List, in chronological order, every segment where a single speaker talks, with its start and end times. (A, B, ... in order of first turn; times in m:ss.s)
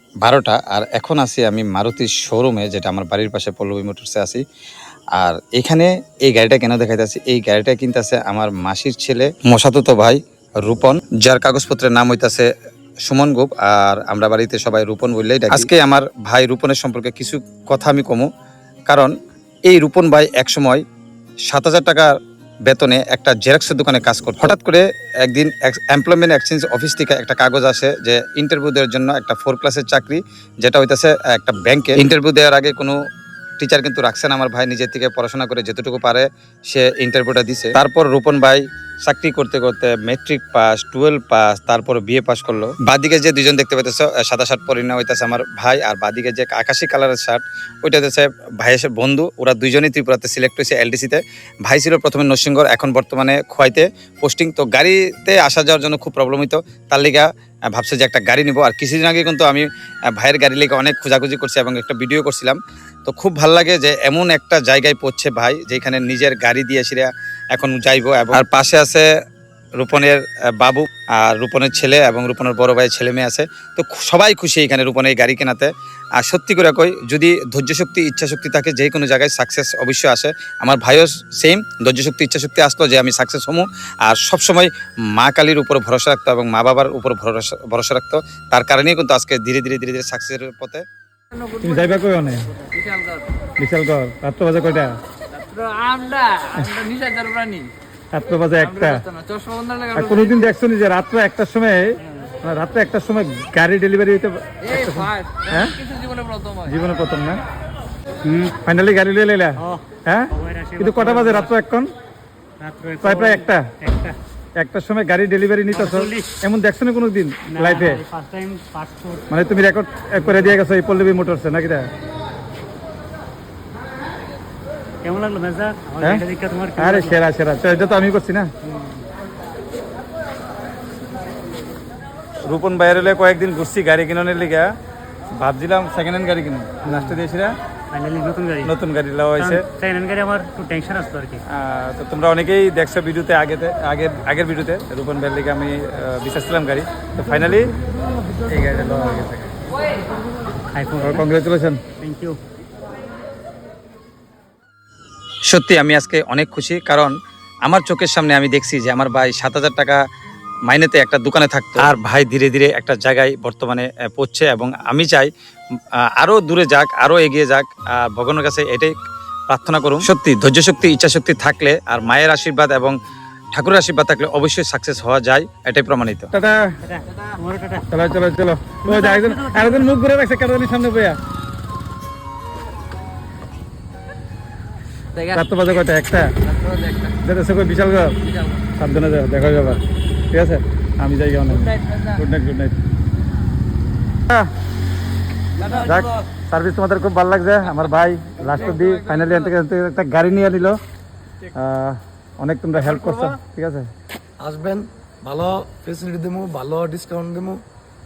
0:00.2-0:04.4 A
0:05.2-0:12.5 A
0:13.1-0:18.3 A
0:18.9-0:19.1 A
0:19.7-0:20.8 A
0:21.5-0:22.1 A
0:22.7-0:33.0 A
0:33.6-1:09.1 A
1:09.8-1:30.8 A
1:31.6-1:32.5 B
1:33.6-1:34.9 B
1:35.5-1:37.7 C
1:36.6-1:36.8 B
1:38.1-1:39.1 B
1:39.2-1:39.9 C
1:39.9-1:41.9 B
1:42.4-1:45.8 B
1:46.2-1:46.5 C
1:46.6-1:47.4 B
1:48.2-1:48.6 D
1:48.6-1:51.9 B
1:49.6-1:51.5 D
1:52.6-1:54.2 D
1:53.0-1:53.6 B
1:54.6-1:58.0 B
1:55.7-1:56.3 D
1:57.5-1:59.2 D
1:59.3-2:01.9 B
2:00.2-2:00.6 D
2:05.0-2:07.2 D
2:06.8-2:08.5 B
2:08.7-2:09.0 D
2:12.4-2:14.7 B
2:15.3-2:17.6 B
2:16.9-2:17.2 D
2:17.9-2:18.7 D
2:18.6-2:19.6 B
2:19.4-2:21.4 D
2:21.5-2:27.7 B
2:28.4-2:29.6 B
2:30.8-2:31.3 D
2:31.0-2:31.8 B
2:32.0-2:32.4 D
2:35.5-2:37.1 A
2:37.7-2:40.0 A
2:40.7-2:45.3 A
2:46.2-2:48.9 A
2:49.5-2:53.0 A
2:53.6-2:56.3 A
2:56.8-2:57.9 D
2:57.9-3:01.2 B
2:58.8-2:59.9 D
3:05.2-3:06.3 B
3:07.2-3:08.2 B
3:08.8-3:12.8 B
3:15.7-3:20.8 B
3:21.5-3:23.9 B
3:22.9-3:23.3 E
3:24.4-3:27.6 E